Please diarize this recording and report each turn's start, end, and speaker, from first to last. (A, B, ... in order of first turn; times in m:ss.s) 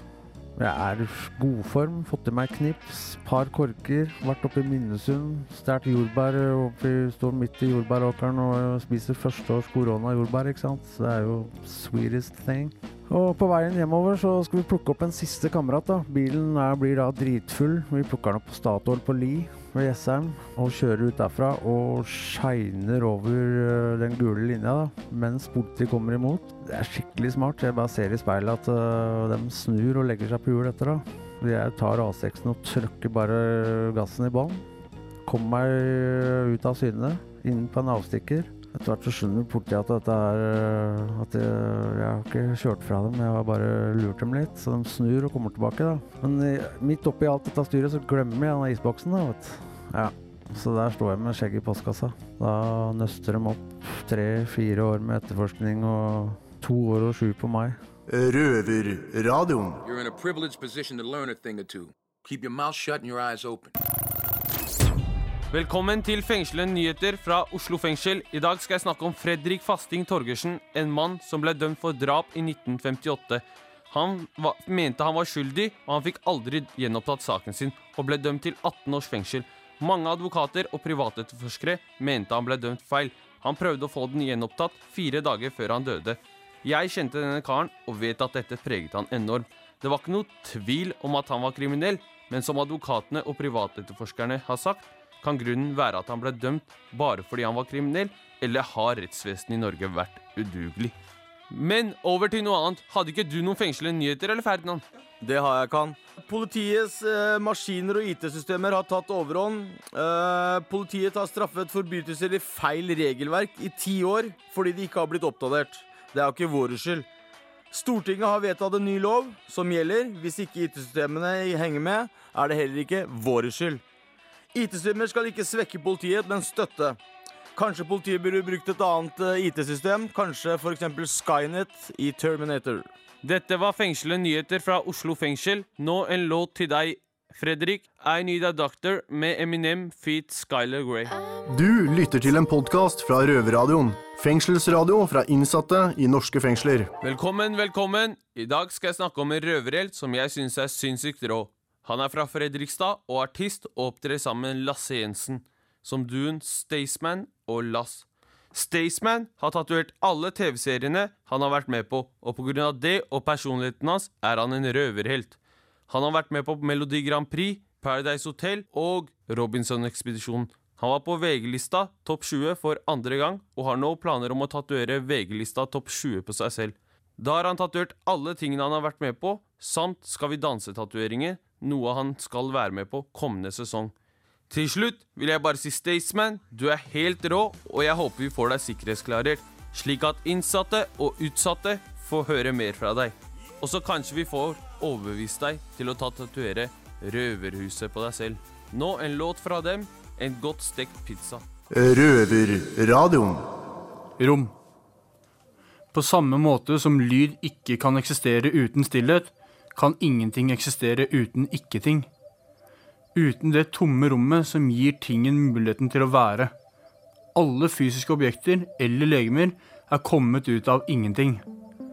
0:00.6-0:34.6 A
0:35.2-0:57.8 A
0:58.1-0:59.8 B
0:59.8-1:03.8 C
1:05.5-1:40.9 D
1:41.5-1:44.8 D
1:45.2-1:57.1 E
1:57.7-2:03.8 E
2:04.5-2:07.0 E
2:07.6-2:12.9 E
2:13.2-2:21.1 D
2:21.5-2:26.9 B
2:27.0-2:45.4 D
2:45.9-3:03.9 D
3:04.5-3:21.4 D
3:21.7-3:23.4 B
3:24.2-3:24.5 F
3:25.9-3:32.1 F
3:33.2-3:36.5 F
3:37.4-3:41.4 F